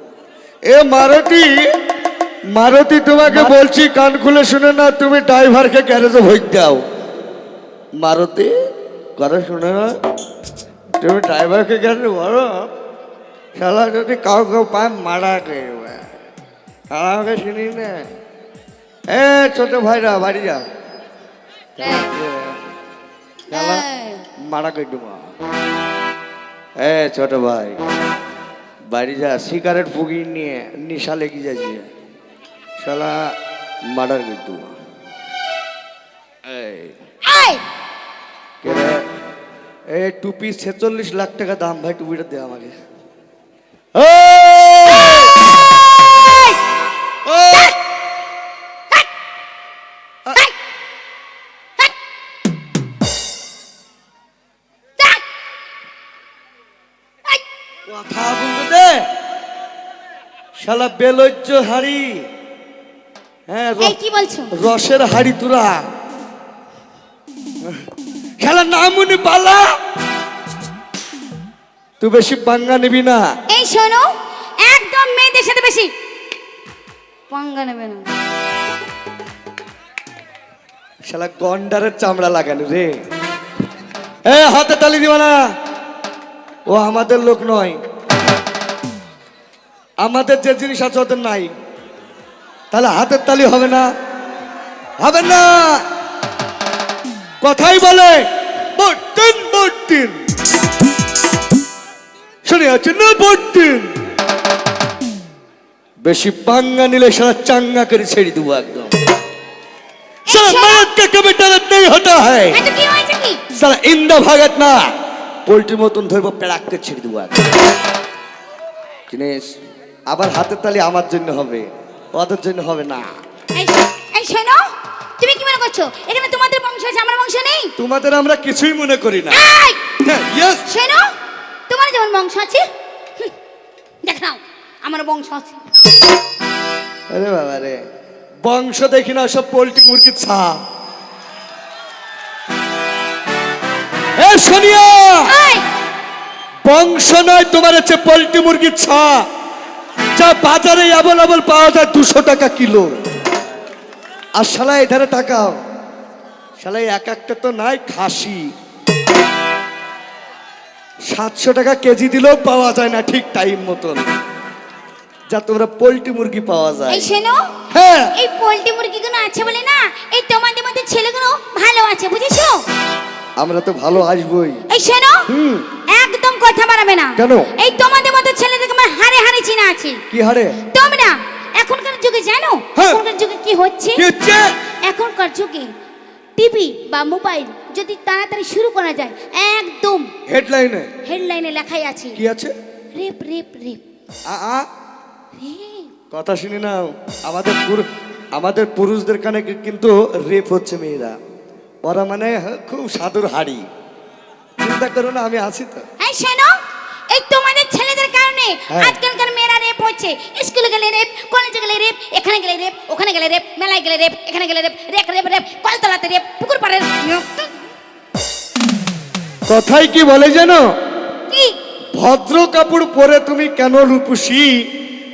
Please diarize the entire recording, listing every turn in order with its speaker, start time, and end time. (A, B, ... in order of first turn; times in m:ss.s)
0:00.7-0:01.6 A
0:02.5-0:06.8 A
0:08.0-0:08.5 A
0:09.2-0:09.9 A
0:11.0-0:12.7 A
0:13.6-0:16.1 A
0:16.9-0:18.0 A
0:19.1-0:20.6 A
0:21.8-0:22.1 B
0:21.8-0:22.6 A
0:23.5-0:24.2 B
0:23.5-0:23.8 A
0:24.4-0:25.2 A
0:26.8-0:27.8 A
0:28.9-0:31.8 A
0:32.8-0:33.3 A
0:33.9-0:34.7 A
0:36.4-0:37.0 A
0:37.2-0:37.6 B
0:38.6-0:39.0 A
0:39.9-0:42.7 A
0:44.0-0:45.4 A
0:44.9-0:46.6 B
0:47.2-0:47.7 A
0:55.0-0:55.2 B
0:57.9-0:59.0 A
1:00.6-1:02.2 A
1:03.5-1:04.0 A
1:03.8-1:04.5 B
1:04.5-1:05.8 A
1:08.4-1:09.7 A
1:12.0-1:13.2 A
1:13.5-1:15.9 B
1:17.3-1:18.1 B
1:21.1-1:23.0 A
1:24.2-1:25.4 A
1:26.7-1:27.8 A
1:30.0-1:31.5 A
1:32.7-1:33.9 A
1:35.0-1:35.8 A
1:37.4-1:40.2 A
1:42.4-1:43.9 A
1:46.0-1:48.9 A
1:50.3-1:50.9 B
1:50.3-1:52.6 A
1:52.5-1:53.4 B
1:53.5-1:54.9 A
1:55.5-1:57.3 A
1:59.1-1:59.6 A
2:00.1-2:03.1 A
2:03.5-2:07.7 B
2:07.8-2:09.4 A
2:09.3-2:09.8 B
2:10.0-2:10.6 A
2:10.7-2:11.1 B
2:11.7-2:12.7 B
2:14.0-2:15.6 B
2:17.1-2:17.8 A
2:18.4-2:20.6 A
2:24.2-2:25.3 A
2:25.3-2:25.6 B
2:26.6-2:29.2 A
2:30.2-2:33.0 A
2:34.4-2:35.6 A
2:36.6-2:38.4 A
2:41.1-2:44.1 A
2:45.3-2:47.1 A
2:46.9-2:47.6 B
2:47.7-2:48.2 A
2:48.2-2:52.6 B
2:53.4-2:54.6 A
2:54.7-2:55.3 B
2:55.3-2:55.7 A
2:55.9-3:00.0 B
2:57.2-2:57.5 A
3:00.1-3:00.6 A
3:00.6-3:04.1 B
3:02.8-3:03.0 A
3:04.0-3:04.5 A
3:04.8-3:05.7 B
3:06.4-3:10.1 B
3:10.3-3:10.9 A
3:11.0-3:12.2 B
3:12.2-3:12.5 A
3:12.9-3:13.8 B
3:14.3-3:14.6 A
3:15.4-3:15.9 B
3:16.1-3:21.2 A
3:21.8-3:23.6 A
3:24.6-3:25.8 A
3:26.0-3:26.6 B
3:27.1-3:37.5 B
3:28.7-3:29.0 A
3:39.5-3:40.6 A
3:41.3-3:41.6 B
3:42.0-3:44.5 A